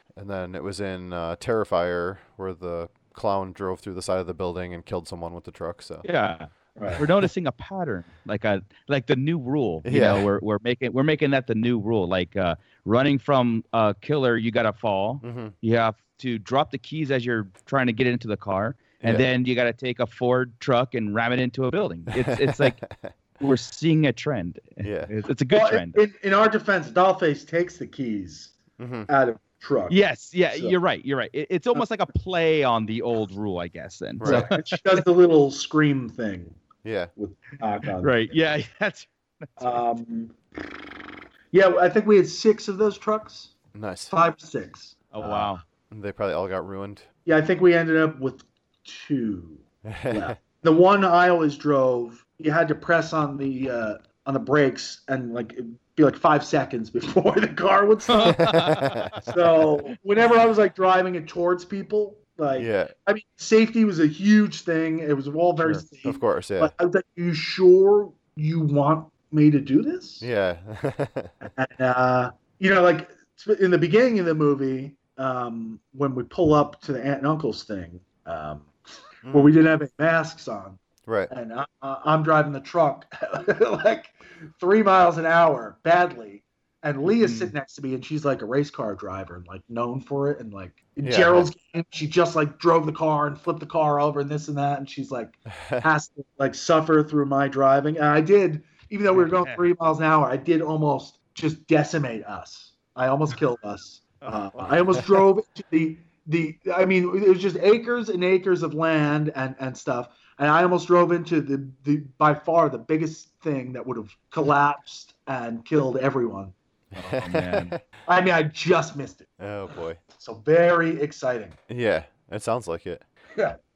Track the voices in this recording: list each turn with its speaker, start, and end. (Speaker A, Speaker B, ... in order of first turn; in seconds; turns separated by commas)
Speaker A: 0.1-6.1, Speaker B: 6.0-22.8, Speaker C: 6.8-7.0, Speaker A: 7.0-7.2, Speaker A: 9.8-10.3, Speaker A: 15.2-15.5, Speaker A: 19.0-19.3, Speaker A: 22.2-23.1, Speaker B: 23.4-26.0, Speaker A: 24.8-25.1, Speaker C: 25.5-28.6, Speaker A: 28.8-29.1, Speaker C: 29.1-30.0, Speaker B: 29.9-35.0, Speaker C: 30.5-30.8, Speaker A: 34.2-34.5, Speaker C: 34.2-36.6, Speaker A: 36.8-37.1, Speaker C: 37.2-38.4, Speaker B: 38.0-39.8, Speaker C: 39.6-40.4, Speaker C: 41.5-43.5, Speaker A: 43.7-44.1, Speaker C: 44.1-45.6, Speaker B: 45.1-45.6, Speaker A: 45.9-47.1, Speaker C: 47.2-58.5, Speaker A: 49.9-50.4, Speaker B: 58.1-59.2, Speaker A: 58.4-59.2, Speaker C: 59.2-70.3, Speaker A: 62.5-62.9, Speaker A: 65.6-66.7, Speaker A: 70.2-71.3, Speaker C: 71.4-78.8, Speaker A: 79.2-79.5, Speaker C: 79.3-116.5, Speaker B: 87.1-87.5, Speaker A: 91.0-91.5, Speaker A: 95.6-95.9, Speaker B: 99.2-99.6, Speaker B: 117.0-117.7, Speaker A: 117.0-117.8, Speaker C: 118.1-121.6, Speaker A: 119.4-120.0, Speaker A: 121.7-123.0